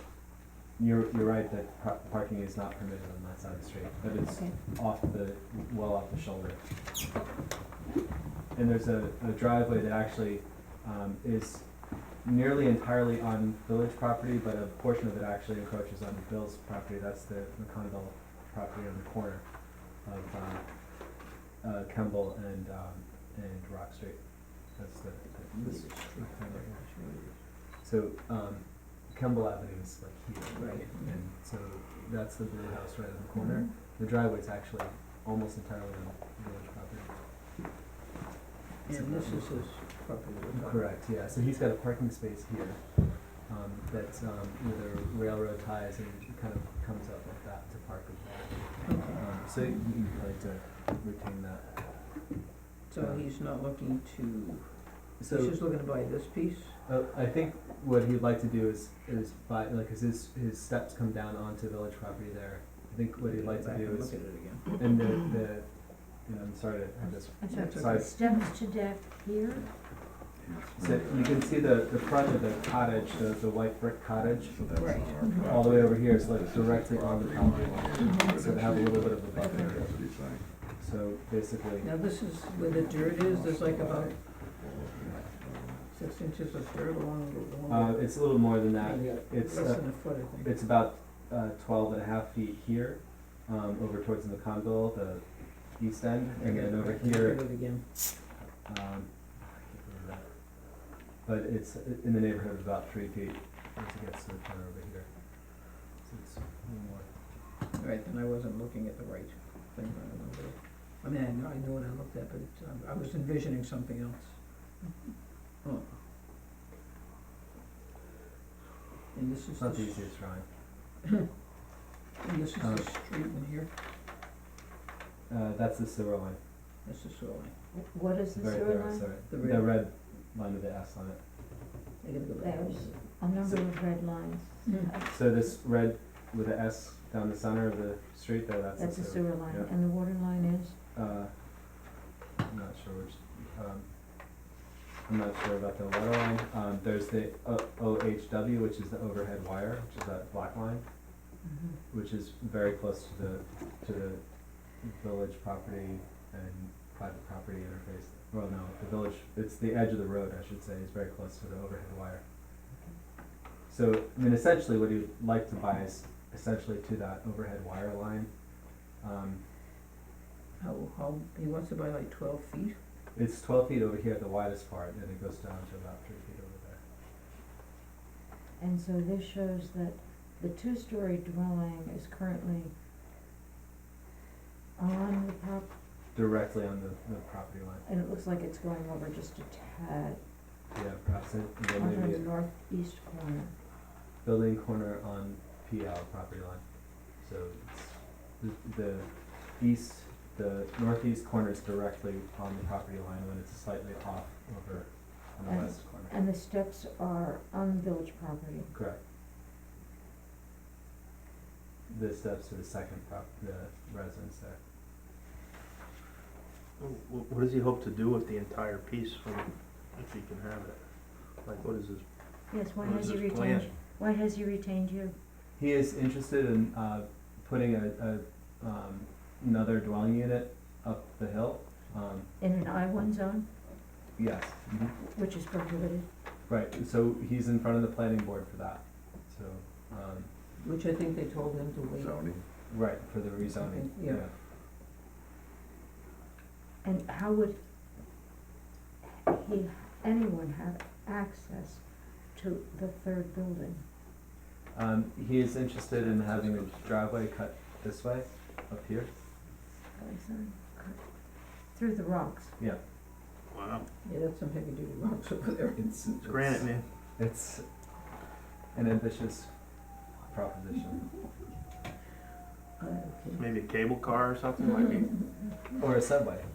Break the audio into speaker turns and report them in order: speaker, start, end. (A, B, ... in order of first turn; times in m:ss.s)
0:00.8-0:06.6 A
0:04.2-0:04.6 B
0:08.5-0:11.7 A
0:12.2-0:26.8 A
0:25.5-0:27.4 C
0:27.8-0:37.2 A
0:30.5-0:31.2 C
0:33.3-0:33.7 B
0:38.8-0:39.7 A
0:38.8-0:41.0 C
0:40.5-0:52.2 A
0:48.8-0:49.2 C
0:52.9-0:56.8 C
0:53.0-0:53.2 A
0:55.2-0:55.6 A
0:56.9-1:08.2 A
1:03.2-1:04.9 C
1:07.0-1:09.7 B
1:07.5-1:08.5 C
1:10.3-1:13.5 D
1:10.8-1:14.6 A
1:14.2-1:20.8 D
1:14.7-1:15.5 C
1:15.2-1:20.2 A
1:18.0-1:18.3 C
1:19.4-1:19.8 C
1:20.8-1:21.9 A
1:21.8-1:24.2 C
1:22.7-1:26.0 D
1:25.9-1:30.6 C
1:27.7-1:37.4 A
1:36.4-1:37.8 C
1:38.4-1:40.3 A
1:41.2-1:47.1 A
1:47.7-1:54.7 C
1:55.6-1:55.9 C
1:59.1-2:00.2 C
1:59.6-2:00.4 A
2:02.2-2:03.7 C
2:02.6-2:02.9 A
2:05.3-2:06.4 A
2:06.8-2:07.5 C
2:07.7-2:09.2 B
2:08.3-2:11.2 A
2:09.2-2:09.8 C
2:12.0-2:13.1 C
2:12.4-2:15.6 B
2:14.7-2:14.9 C
2:15.0-2:19.7 A
2:18.8-2:20.8 B
2:20.9-2:21.9 A
2:22.4-2:23.9 A
2:25.0-2:30.8 A
2:31.4-2:31.8 B
2:31.9-2:34.2 A
2:34.8-2:42.2 A
2:42.7-2:43.0 B
2:43.7-2:48.3 A
2:49.0-2:49.4 A
2:50.6-2:52.8 C
2:53.1-2:56.8 A
2:58.6-3:02.7 B
3:04.8-3:05.7 B
3:06.1-3:07.8 A
3:07.8-3:10.2 B
3:10.8-3:12.3 A
3:11.8-3:13.5 B
3:14.2-3:16.6 A
3:17.2-3:26.1 A
3:25.4-3:28.7 B
3:28.7-3:29.0 A
3:31.9-3:34.6 A
3:36.8-3:40.8 E
3:41.4-3:42.0 E
3:42.5-3:45.1 B
3:42.7-3:43.7 E
3:45.6-3:52.3 A
3:52.4-3:53.5 B
3:54.2-3:54.9 A
3:55.0-3:56.1 B
3:56.5-4:00.3 A
4:00.6-4:02.2 C
4:01.9-4:02.4 D
4:02.7-4:04.3 A
4:03.4-4:04.3 C
4:06.8-4:07.6 B
4:09.0-4:13.8 B
4:14.7-4:19.1 A
4:16.1-4:16.7 E
4:20.0-4:21.0 B
4:21.7-4:22.6 B
4:23.5-4:23.9 E
4:24.0-4:26.2 C
4:25.8-4:26.7 A
4:26.2-4:26.9 E
4:27.2-4:27.6 A
4:28.7-4:29.5 A
4:30.2-4:31.1 A
4:32.8-4:33.5 C
4:33.4-4:35.2 E
4:35.8-4:36.5 A